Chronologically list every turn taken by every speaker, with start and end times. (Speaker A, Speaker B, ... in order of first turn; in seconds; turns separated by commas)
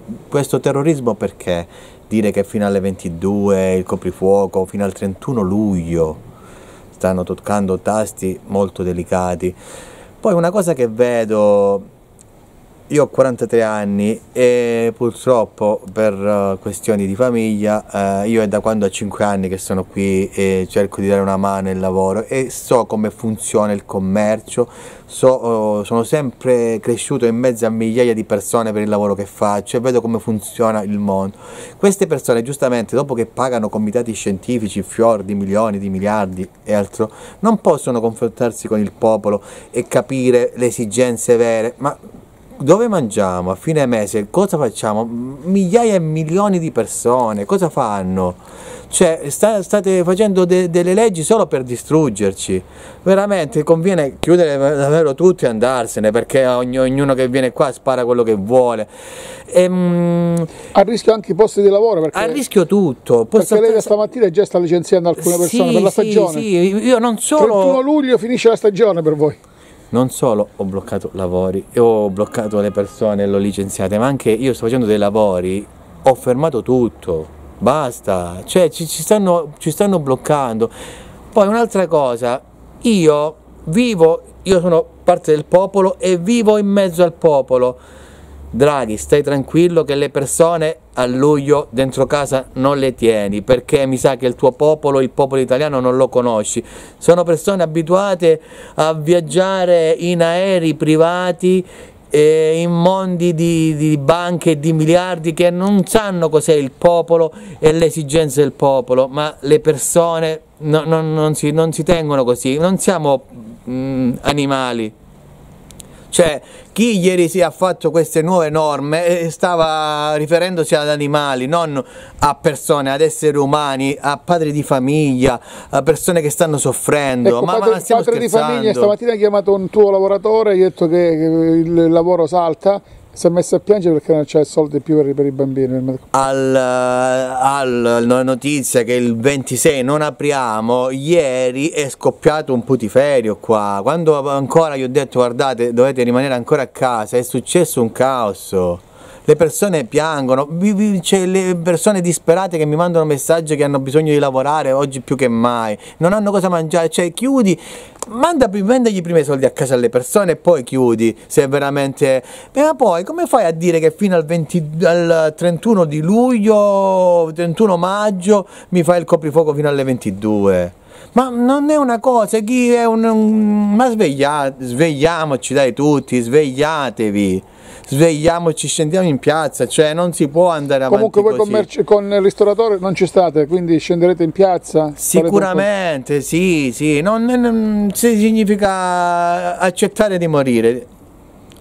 Speaker A: 0.3-6.2, Speaker A: 7.0-9.6, Speaker A: 10.2-11.8, Speaker A: 12.9-42.0, Speaker A: 42.6-58.9, Speaker A: 59.5-60.5, Speaker B: 60.7-62.4, Speaker A: 62.1-63.9, Speaker B: 63.4-66.5, Speaker A: 65.2-67.8, Speaker B: 67.4-69.4, Speaker A: 69.9-80.7, Speaker A: 81.3-87.8, Speaker A: 88.5-114.9, Speaker A: 116.1-128.9, Speaker B: 127.2-136.1, Speaker A: 136.1-181.7, Speaker B: 180.9-185.7, Speaker A: 185.0-190.9